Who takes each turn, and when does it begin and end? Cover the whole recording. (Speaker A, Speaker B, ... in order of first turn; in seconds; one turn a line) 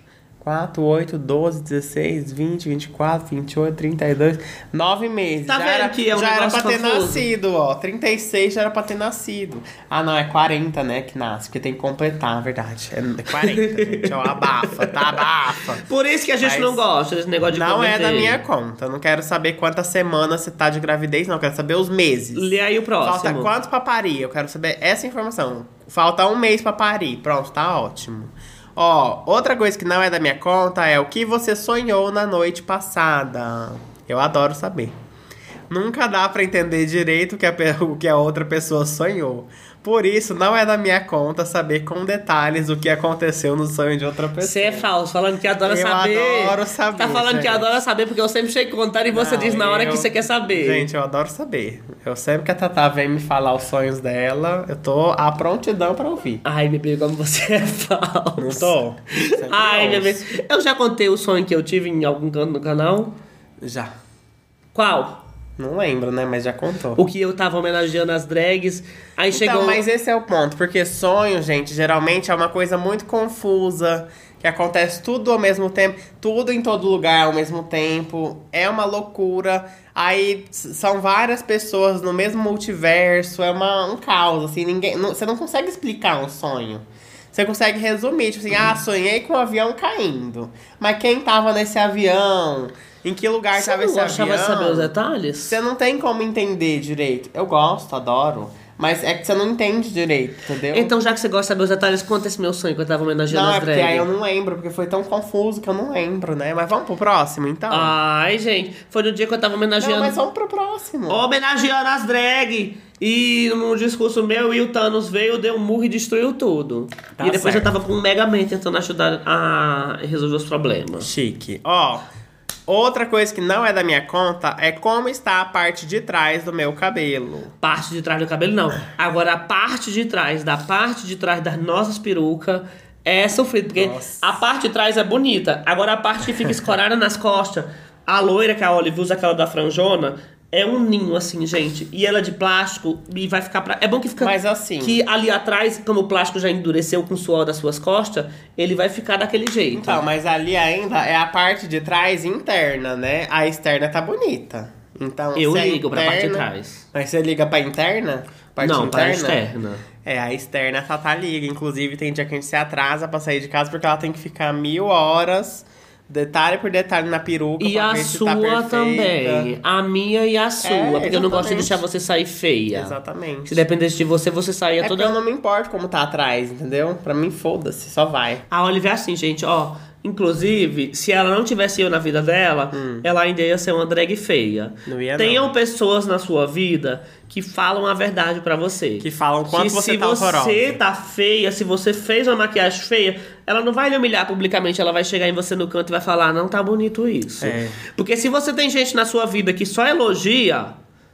Speaker A: 0.4-15.8
Speaker B: 5.5-7.3
Speaker B: 13.4-15.3
Speaker B: 15.8-18.4
Speaker A: 16.4-16.8
Speaker A: 17.5-35.0
Speaker B: 22.3-23.5
Speaker A: 35.7-44.9
Speaker B: 44.4-50.9
Speaker A: 45.6-47.8
Speaker A: 49.1-56.4
Speaker B: 56.5-63.2
Speaker A: 58.4-60.4
Speaker A: 63.6-63.9
Speaker B: 64.8-65.2
Speaker A: 65.6-67.0
Speaker B: 67.0-69.8
Speaker A: 69.3-95.0
Speaker B: 93.5-95.6
Speaker A: 95.5-100.9
Speaker B: 100.7-104.1
Speaker A: 103.3-108.0
Speaker B: 107.7-110.2
Speaker A: 109.8-111.2
Speaker B: 111.1-121.1
Speaker A: 117.2-117.8
Speaker A: 121.0-122.1
Speaker A: 122.7-127.5
Speaker B: 127.6-150.1
Speaker A: 133.8-134.3
Speaker A: 144.2-145.0
Speaker A: 149.7-159.4
Speaker B: 155.4-156.8
Speaker B: 158.6-159.8
Speaker A: 160.0-169.5
Speaker B: 167.6-172.9
Speaker A: 170.6-171.8
Speaker A: 172.7-173.6
Speaker B: 173.5-175.2
Speaker A: 174.8-178.5
Speaker B: 178.5-200.8
Speaker A: 182.7-183.1
Speaker A: 184.9-185.5
Speaker A: 189.0-190.8
Speaker A: 197.4-197.8